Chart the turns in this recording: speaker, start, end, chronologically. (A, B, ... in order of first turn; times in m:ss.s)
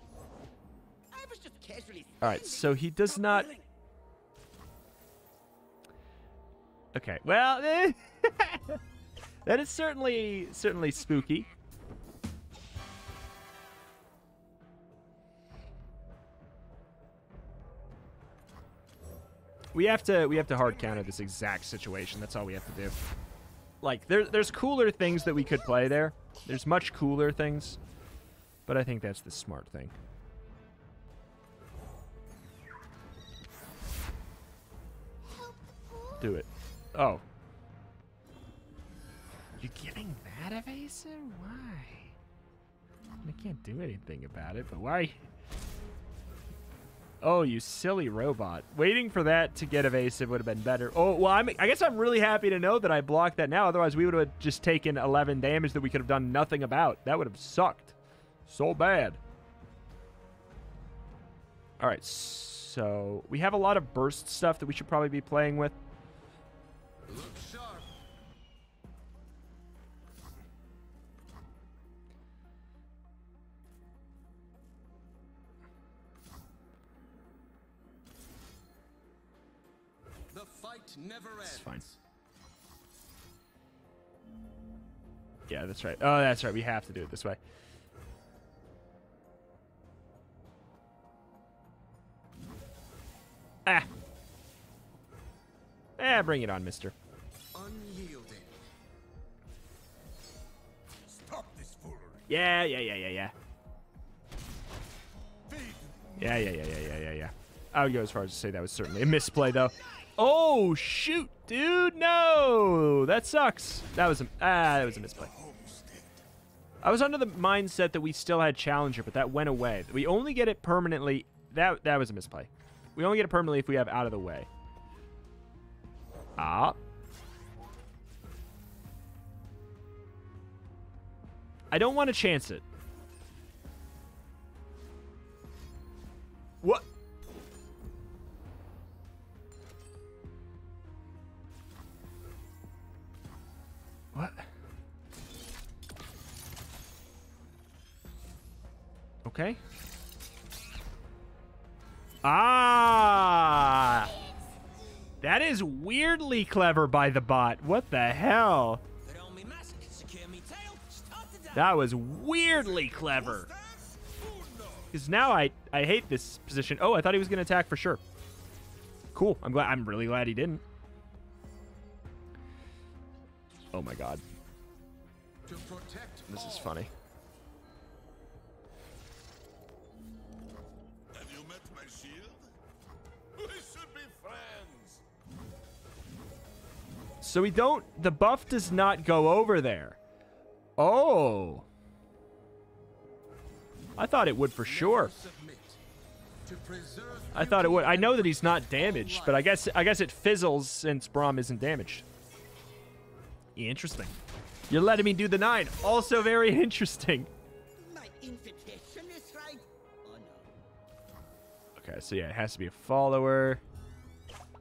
0:01.1-0:03.7 A
0:02.2-0:03.5 B
0:06.9-0:08.8 B
0:09.5-0:11.5 B
0:19.7-0:23.0 B
0:20.6-0:21.0 C
0:23.8-0:27.8 B
0:28.7-0:29.9 B
0:36.2-0:37.2 B
0:39.6-0:42.2 B
0:43.2-0:45.2 B
0:47.2-0:59.2 B
1:01.8-1:05.8 B
1:07.1-1:07.9 D
1:20.3-1:22.0 D
1:21.4-1:21.9 B
1:25.5-1:27.4 B
1:36.0-1:37.0 B
1:37.5-1:38.6 D
1:41.1-1:42.2 C
1:42.3-1:43.3 B
1:45.5-1:46.1 C
1:46.2-1:55.3 B
1:54.8-1:56.2 C
1:56.8-2:04.5 B
2:06.4-2:06.8 B
2:11.7-2:12.6 B
2:24.1-2:24.5 B
2:29.2-2:29.6 B
2:32.2-2:34.1 B
2:35.2-2:38.8 B
2:39.0-2:41.8 A
2:41.5-2:43.5 B
2:42.5-2:44.9 C
2:44.9-2:48.0 B
2:49.1-2:50.6 B
2:53.7-2:54.2 B
2:55.4-2:56.8 D
2:56.3-2:56.9 B
3:01.1-3:02.5 C
3:03.4-3:05.0 C
3:07.2-3:10.0 B
3:10.8-3:11.7 B
3:14.0-3:15.1 B
3:14.6-3:15.8 D
3:16.4-3:19.6 D
3:17.3-3:22.0 B
3:23.6-3:24.2 B
3:24.7-3:27.3 B
3:27.8-3:30.5 A
3:31.8-3:33.6 B